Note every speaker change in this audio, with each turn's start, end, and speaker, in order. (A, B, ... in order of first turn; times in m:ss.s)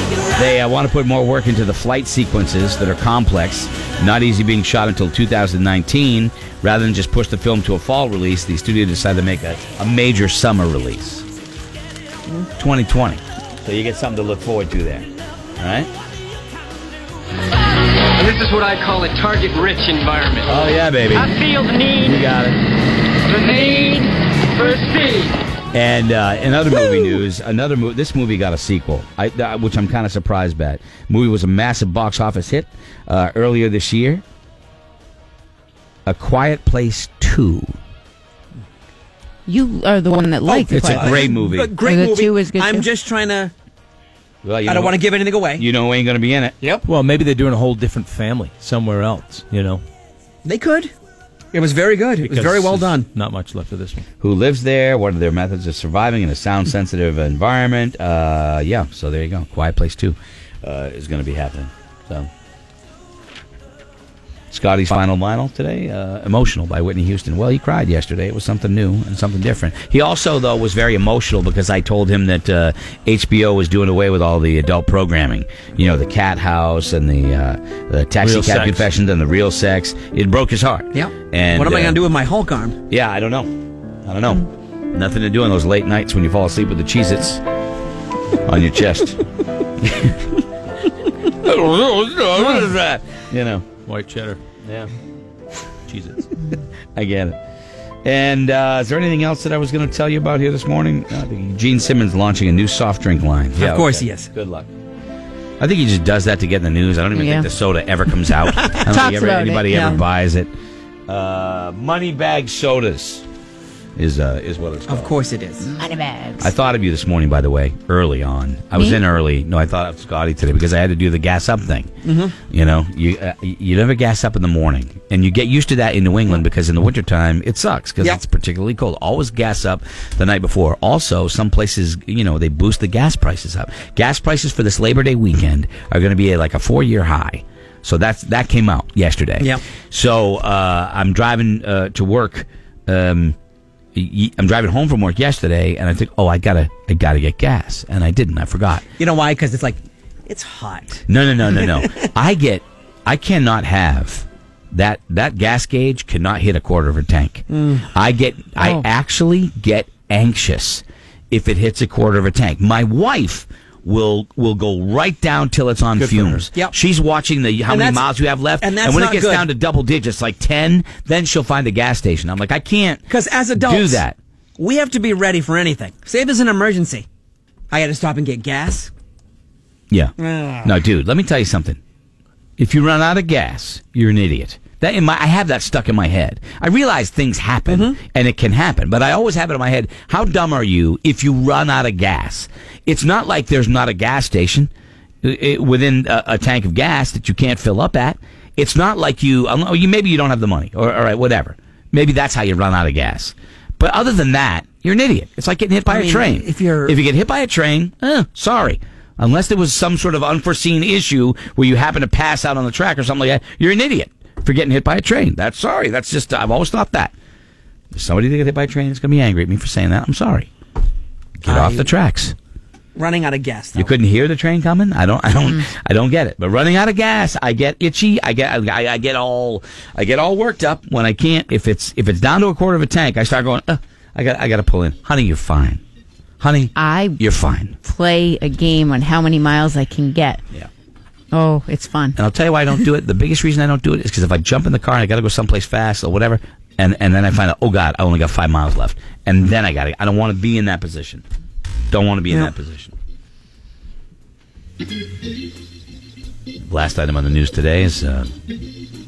0:00.4-0:11.3 A
0:12.6-0:15.1 A
0:15.6-0:15.9 A
0:18.2-0:20.6 B
0:20.4-0:21.4 A
0:21.4-0:22.0 B
0:22.0-0:22.6 A
0:23.3-0:25.4 B
0:25.7-0:34.2 A
0:36.1-0:37.8 A
0:39.5-0:41.4 C
0:40.4-0:43.5 D
0:40.7-0:41.8 A
0:41.9-0:42.9 C
0:44.4-0:45.0 A
0:44.7-0:45.7 D
0:45.6-0:46.6 A
0:46.6-0:46.9 D
0:46.9-0:49.8 E
0:50.4-0:50.9 D
0:51.5-0:53.1 D
0:52.2-0:54.0 E
0:54.2-1:02.3 A
1:04.5-1:22.0 A
1:18.2-1:18.9 E
1:20.9-1:22.8 D
1:22.9-1:23.5 A
1:24.0-1:27.4 A
1:28.5-1:29.2 A
1:29.8-1:30.4 A
1:31.2-1:33.7 A
1:33.8-1:34.4 E
1:34.6-1:34.9 A
1:35.9-1:36.2 E
1:37.0-1:37.4 A
1:38.0-1:44.7 A
1:43.6-1:44.3 D
1:45.6-1:50.5 A
1:47.1-1:47.5 C
1:48.9-1:50.0 C
1:51.1-1:53.2 A
1:54.0-1:55.1 A
1:54.9-1:55.7 D
1:55.7-1:56.5 C
1:56.4-2:01.9 A
1:58.7-1:59.0 C
2:02.0-2:02.4 D
2:02.5-2:23.4 A
2:24.0-2:28.8 A
2:29.0-2:31.8 D
2:31.1-2:54.2 A
2:37.5-2:37.8 D
2:46.0-2:46.5 E
2:47.7-2:49.5 D
2:53.1-2:54.0 D
2:54.6-2:57.1 D
2:57.7-2:58.9 D
3:00.2-3:00.8 D
3:00.6-3:01.8 A
3:02.6-3:14.7 A
3:07.7-3:08.0 D
3:15.2-3:37.1 A
3:25.9-3:27.0 D
3:37.9-3:40.5 A
3:41.4-3:42.4 A
3:41.5-3:41.9 D
3:43.0-3:43.9 D
3:43.8-3:55.8 A
3:56.4-3:57.8 A
3:56.8-3:57.2 C
3:57.8-4:00.4 C
4:01.3-4:02.2 C
4:02.2-4:11.2 A
4:11.9-4:12.9 A
4:16.7-4:18.3 A